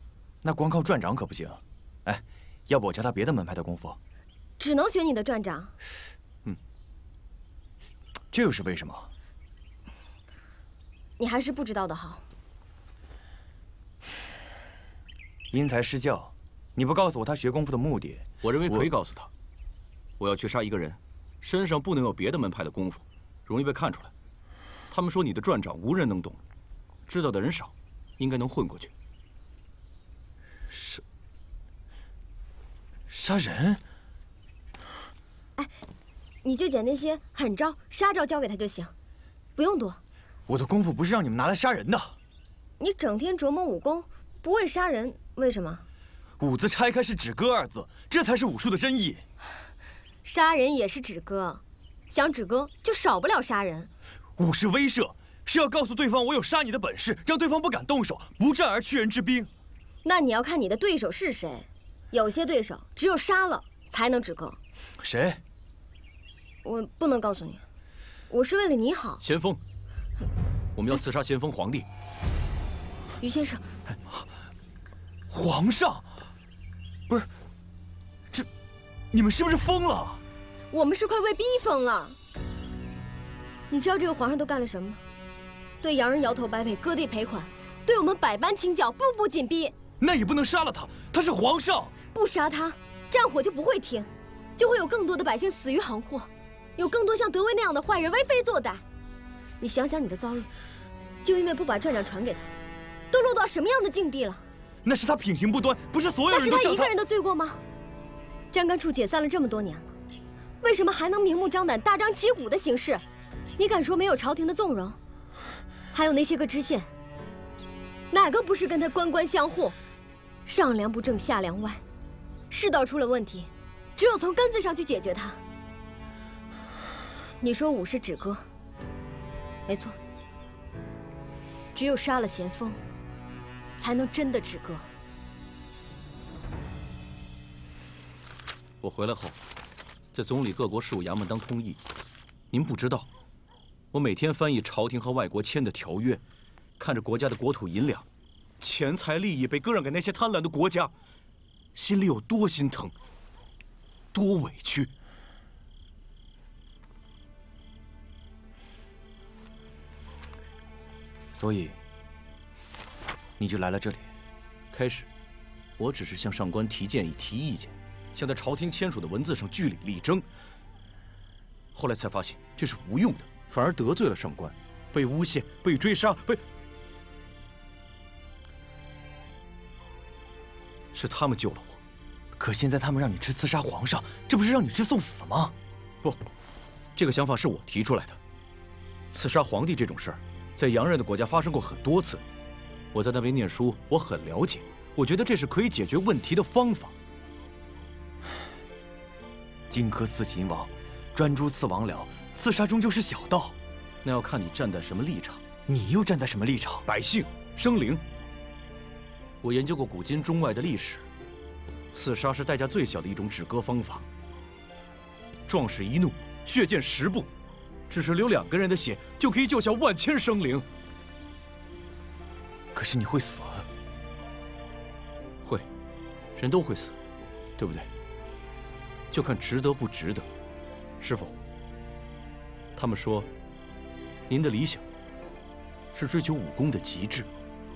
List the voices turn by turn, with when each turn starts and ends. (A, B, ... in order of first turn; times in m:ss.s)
0:00.4-0:04.0 A
0:04.6-0:05.7 B
0:08.3-0:09.1 A
0:11.2-0:12.2 B
0:15.5-0:18.9 A
0:18.4-0:19.3 C
0:20.2-0:24.1 C
0:24.9-0:26.4 C
0:27.1-0:28.9 C
0:30.7-0:31.0 A
0:33.1-0:33.8 A
0:36.4-0:38.9 B
0:39.6-0:40.0 B
0:40.5-0:42.2 A
0:42.8-0:45.8 B
0:46.4-0:49.2 A
0:50.2-0:53.9 B
0:54.4-0:59.5 A
1:00.0-1:04.6 B
1:05.0-1:05.4 A
1:06.6-1:07.6 B
1:08.3-1:09.2 B
1:09.2-1:09.6 C
1:10.7-1:11.9 C
1:13.2-1:13.7 B
1:15.3-1:16.1 A
1:19.1-1:20.2 A
1:20.7-1:22.2 B
1:23.7-1:25.0 B
1:25.8-1:29.7 B
1:30.0-1:31.9 A
1:32.1-1:38.8 B
1:39.6-1:40.5 B
1:41.2-1:42.5 B
1:43.1-1:44.4 B
1:44.8-1:46.9 A
1:46.3-1:47.6 B
1:48.5-1:49.9 B
1:50.6-1:53.0 B
1:53.6-1:55.0 B
1:55.9-1:56.9 B
1:58.1-1:59.8 B
2:00.4-2:01.8 B
2:02.5-2:05.4 B
2:07.4-2:08.4 B
2:09.7-2:10.0 B
2:11.7-2:12.8 B
2:13.8-2:14.9 B
2:18.8-2:19.4 C
2:20.1-2:21.8 C
2:22.5-2:23.1 C
2:23.9-2:26.2 C
2:26.8-2:28.0 C
2:28.6-2:30.9 C
2:31.7-2:32.9 C
2:34.1-2:34.9 C
2:41.3-2:41.8 A
2:43.4-2:44.1 A
2:44.7-2:45.1 C
2:45.8-2:50.2 C
2:51.7-2:56.4 C
3:00.9-3:01.8 C
3:02.4-3:05.5 A
3:06.9-3:08.2 C
3:09.1-3:12.2 C
3:12.9-3:16.9 C
3:19.7-3:23.6 A
3:24.0-3:25.4 C
3:25.7-3:26.8 A
3:26.8-3:28.0 C
3:29.4-3:31.0 C
3:31.9-3:34.0 C
3:35.5-3:37.3 C
3:37.9-3:40.7 C
3:42.7-3:43.7 A
3:46.4-3:46.9 C
3:47.6-3:47.9 C
3:49.1-3:50.3 C
3:51.0-3:51.4 C
3:52.8-3:53.3 C
3:54.3-3:54.8 C
3:55.9-3:57.3 C